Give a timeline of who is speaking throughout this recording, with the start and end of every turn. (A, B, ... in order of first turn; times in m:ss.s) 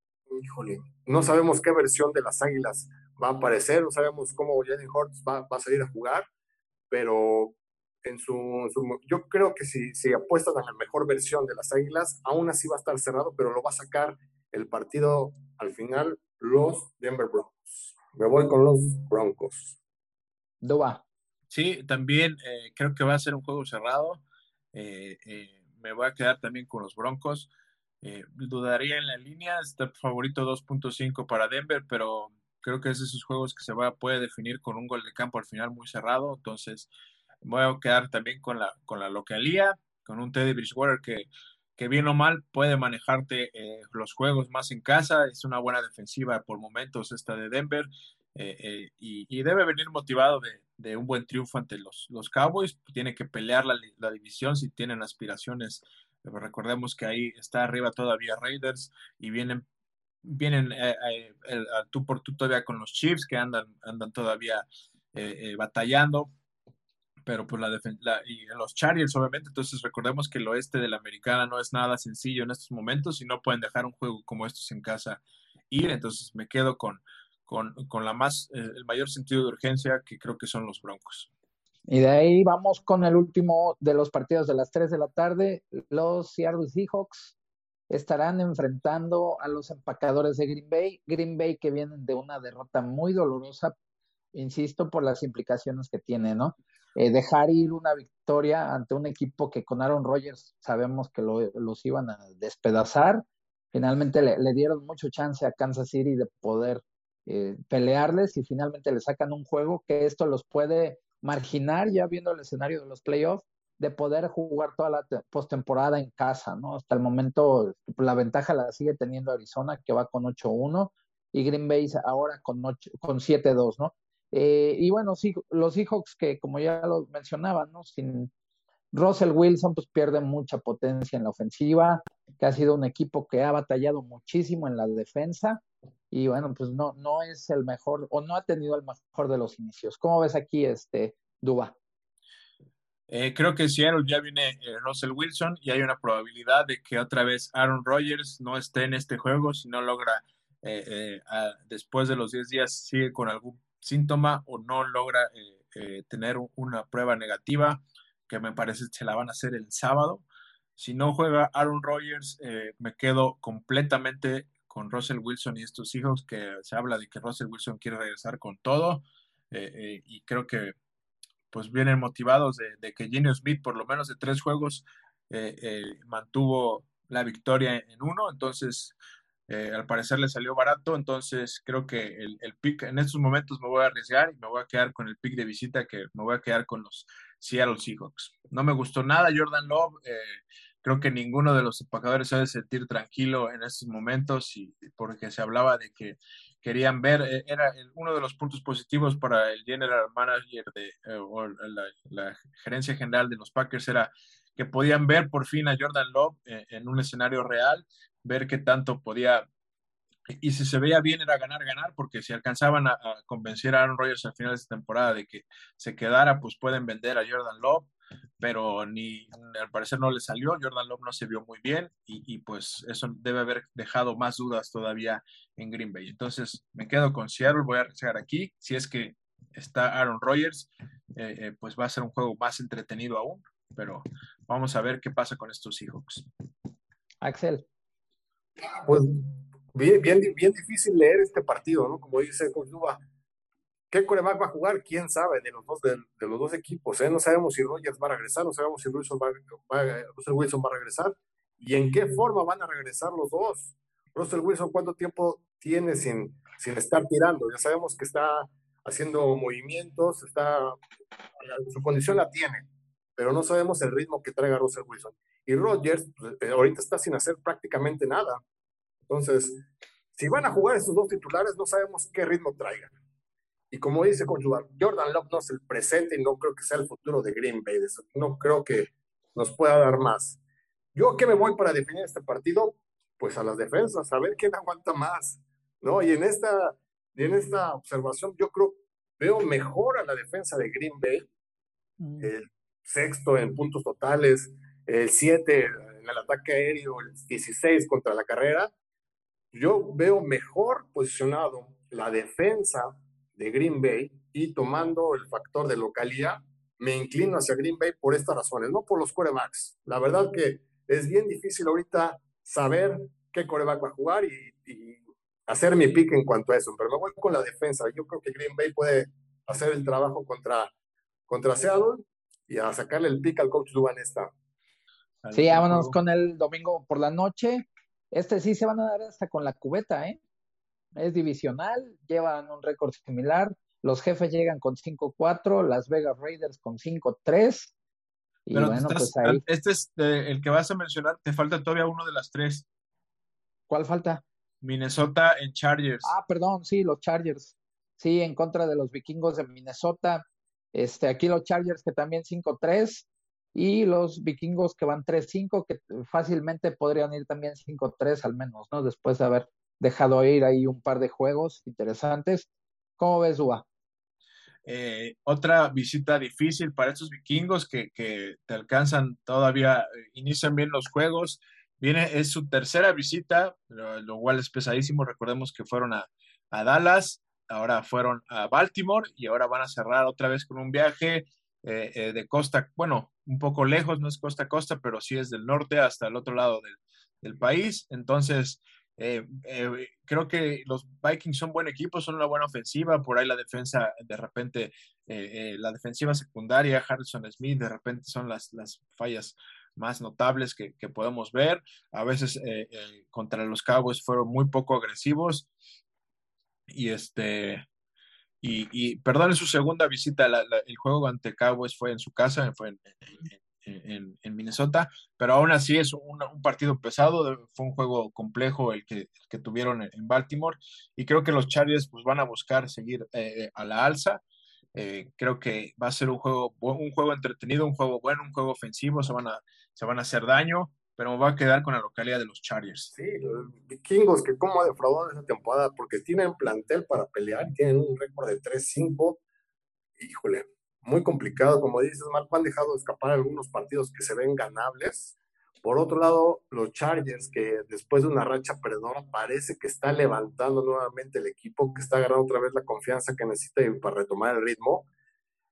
0:00.3-0:06.2 A
0:06.9-0:19.8 A
0:20.6-0:21.0 B
0:21.5-0:24.2 C
0:24.7-0:27.5 C
0:28.0-0:36.9 C
0:37.4-0:59.6 C
1:00.2-1:06.3 C
1:07.2-1:21.3 C
1:21.9-1:27.3 B
1:27.9-1:33.7 B
1:34.3-2:08.3 B
2:08.9-2:21.8 B
2:23.1-2:40.2 C
2:40.8-2:50.7 C
2:51.5-2:58.9 C
2:59.5-3:29.4 C
3:30.3-3:56.3 C
3:57.2-3:57.6 B
3:58.7-3:59.2 A
3:59.7-4:03.0 A
4:03.9-4:20.8 A
4:21.4-4:22.6 A
4:23.2-4:28.4 A
4:29.1-4:29.6 A
4:30.2-4:32.9 A
4:33.7-4:40.4 A
4:40.9-4:51.3 A
4:52.0-4:52.3 B
4:52.2-4:58.7 A
4:59.5-5:20.7 A
5:21.3-5:24.3 A
5:25.2-5:26.0 C
5:25.3-5:30.2 B
5:31.0-5:37.7 B
5:38.5-5:39.4 B
5:38.5-5:42.6 C
5:43.7-5:44.2 B
5:44.6-5:46.1 C
5:46.0-6:03.6 B
6:04.6-6:45.5 C
6:46.7-6:47.6 C
6:48.4-7:04.2 C
7:04.7-7:12.9 C
7:12.9-7:19.2 A
7:20.0-7:34.9 A